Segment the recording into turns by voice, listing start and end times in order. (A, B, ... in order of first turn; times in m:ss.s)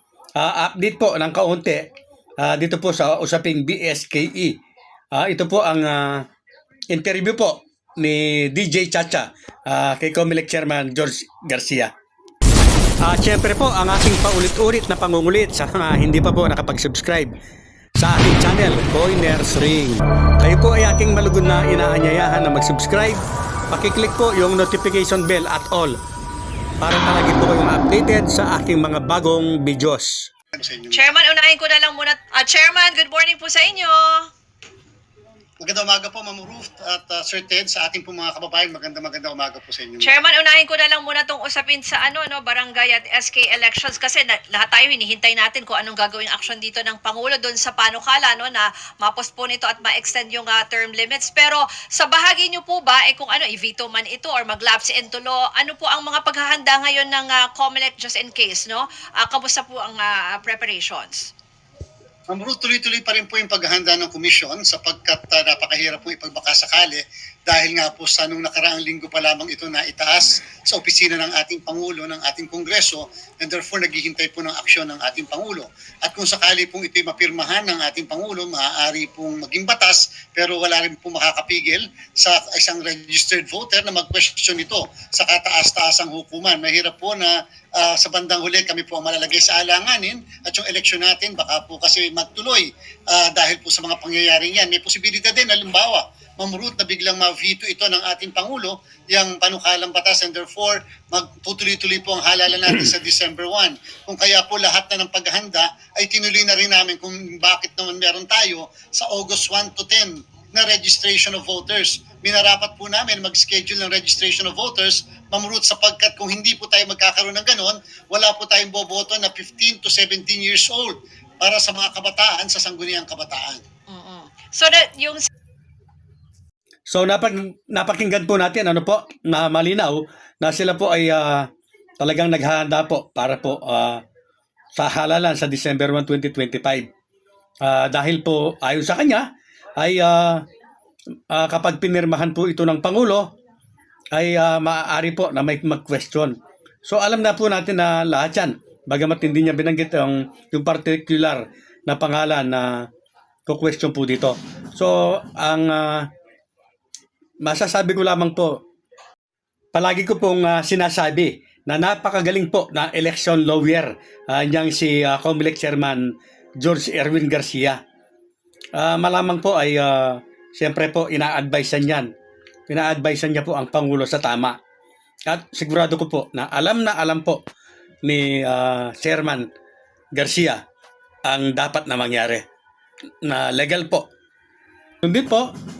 0:00.4-0:01.8 A
0:02.4-0:04.5 A
0:05.1-0:06.3 A
0:06.9-0:11.9 A
0:13.0-0:17.3 A
0:18.0-0:26.0 A
0:26.8-0:30.3 A
0:30.5-0:31.0 B
0:30.9-0:34.3 C
0:35.6-0:40.2 B
0:40.0-1:01.3 C
1:02.3-2:03.6 B
2:03.9-2:05.2 C
2:06.9-2:11.5 A
2:12.0-2:14.0 A
2:14.8-2:16.9 A
2:17.6-2:19.3 A
2:19.8-2:20.4 A
2:21.3-2:23.3 A
2:24.1-2:32.9 A
2:33.5-2:36.1 A
2:37.4-2:38.6 A
2:39.7-2:47.8 A
2:48.8-2:52.1 A
2:52.7-2:54.6 A
2:55.3-2:57.4 A
2:58.0-2:59.5 A
3:00.2-3:00.6 A
3:01.2-3:02.4 A
3:03.2-3:04.1 A
3:05.0-3:05.5 A